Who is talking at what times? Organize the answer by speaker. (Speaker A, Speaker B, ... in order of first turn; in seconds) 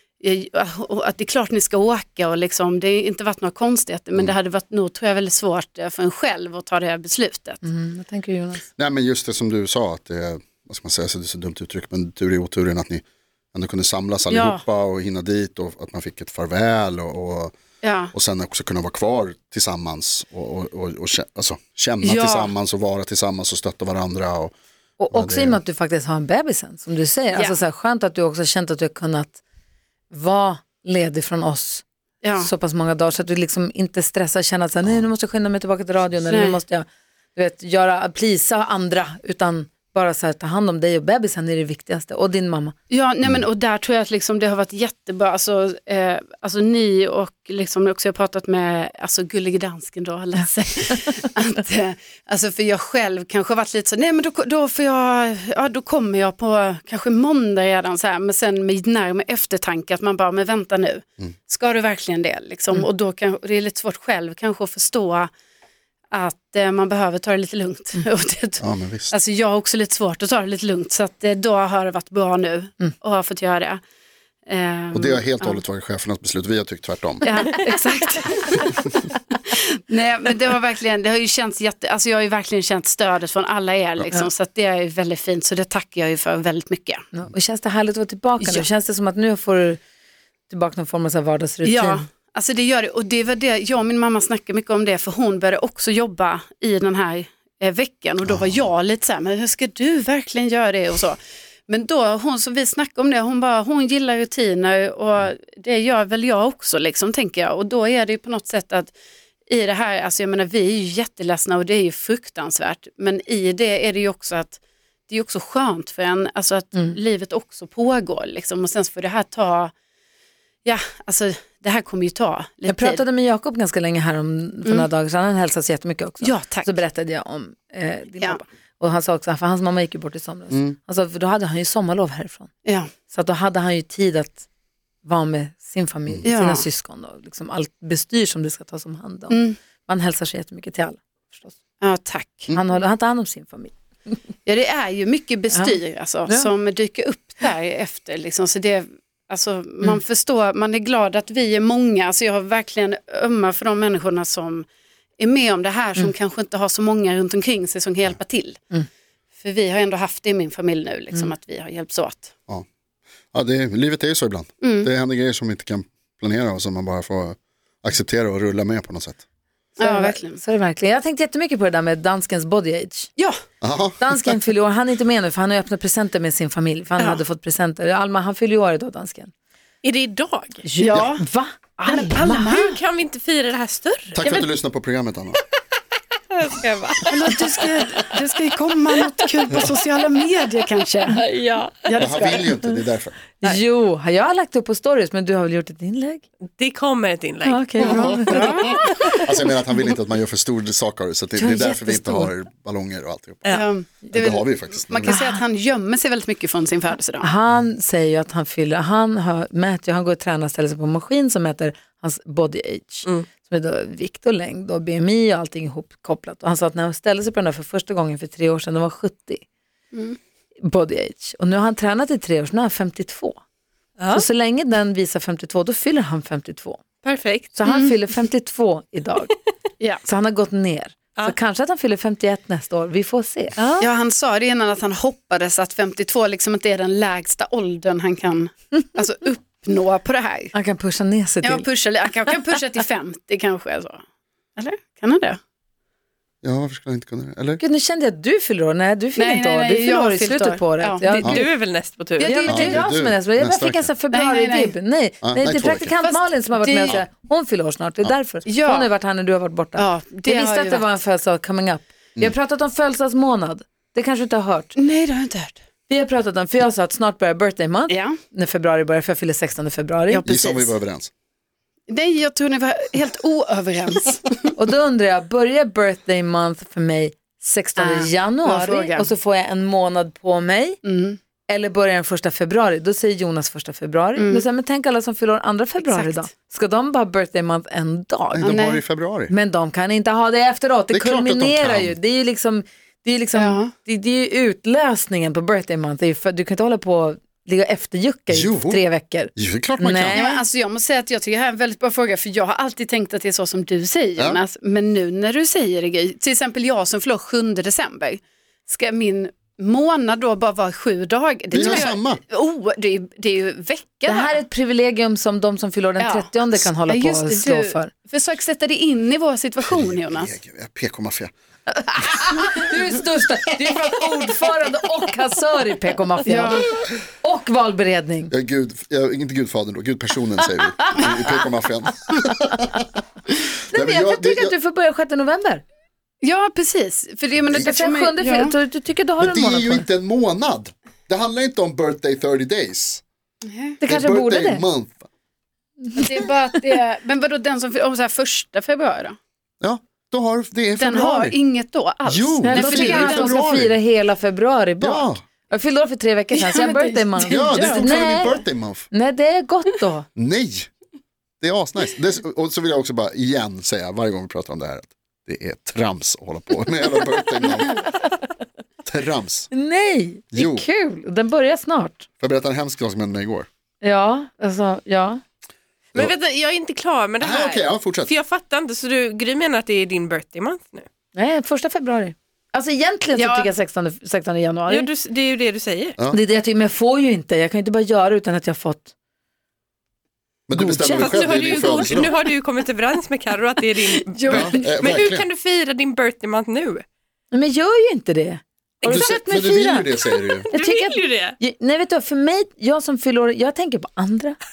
Speaker A: 0.2-7.6, 14.3-14.6, 17.8-18.1, 22.0-22.5, 32.2-32.5, 36.3-36.6, 42.9-65.3, 66.1-73.8, 74.5-75.6, 77.2-78.9, 79.5-87.0, 88.4-88.7, 91.7-108.9, 109.5-119.7, 120.7-123.0, 126.2-126.8, 132.7-132.9, 136.2-136.7, 139.3-139.6, 141.8-142.5, 144.5-154.7, 155.2-158.6, 159.4-162.3, 164.6-164.9, 169.8-170.4, 180.8-181.2, 181.8-182.8, 187.1-191.2, 191.9-192.5, 197.8-198.8, 203.5-207.3, 219.9-220.2, 227.7-227.9, 233.8-240.5, 241.4-244.0, 244.6-245.4, 249.2-251.1, 252.2-252.8, 254.1-254.7, 256.0-257.0, 258.5-258.9, 259.8-260.8, 264.8-265.6, 267.9-268.2, 270.1-270.7, 271.9-274.5, 277.8-279.1, 280.8-281.2, 284.2-284.4, 285.8-286.3, 288.4-288.8, 293.4-293.7, 300.1-314.4, 316.0-320.3, 326.3-326.7, 336.2-338.5, 343.4-343.8, 346.0-349.2, 350.8-353.4, 356.3-357.9, 383.2-383.5, 393.9-394.6
Speaker B: 7.6-8.6, 25.0-29.4, 30.1-31.8, 32.4-42.8, 87.1-89.8, 90.5-92.0, 122.7-132.5, 133.1-134.5, 135.0-141.5, 142.5-143.7, 169.8-173.1, 174.0-179.3, 180.7-182.5, 193.4-196.2, 197.4-199.2, 201.4-202.3, 205.1-205.4, 207.2-219.4, 220.6-223.4, 224.1-226.8, 227.5-229.3, 230.0-233.6, 240.5-241.7, 247.6-251.5, 252.2-264.8, 265.9-270.2, 274.6-280.8, 281.5-288.6, 289.3-300.4, 314.1-317.9, 321.7-326.7, 327.2-328.3, 333.7-335.6, 337.6-339.9, 343.8-344.6, 352.4-358.4, 358.9-360.1, 369.5-372.1, 373.8-375.2, 381.1-384.9, 386.1-388.9, 390.5-391.2, 397.3-399.9, 400.5-404.4
Speaker C: 8.8-13.0, 13.5-17.6, 18.1-24.5, 25.1-25.6, 68.6-69.1, 74.9-77.3, 98.3-98.7, 130.5-130.8, 163.3-169.2, 173.6-174.3, 184.2-185.4, 192.0-193.2, 197.8-203.5, 204.1-205.2, 246.4-247.6, 252.5-253.9, 255.2-255.9, 270.3-271.1, 288.3-289.3, 290.9-292.0, 298.3-298.8, 299.4-300.2, 311.5-312.2, 319.6-321.3, 321.9-322.4, 328.3-332.9, 333.7-334.6, 337.4-337.7, 339.2-343.0, 343.8-345.1, 349.6-351.4, 352.1-353.7, 354.8-355.2, 357.3-358.9, 360.2-360.7, 361.4-367.9, 368.9-369.5, 370.3-370.7, 372.2-373.5, 377.2-378.1, 390.5-392.1, 394.3-395.3, 398.8-400.5
Speaker D: 179.8-180.7, 182.5-184.2, 186.3-188.2, 191.1-191.9, 196.6-198.0, 224.0-224.3, 227.0-227.5, 233.6-233.9, 251.1-252.3, 375.9-380.9, 384.7-386.0, 390.8-396.9, 398.8-399.1, 400.2-401.4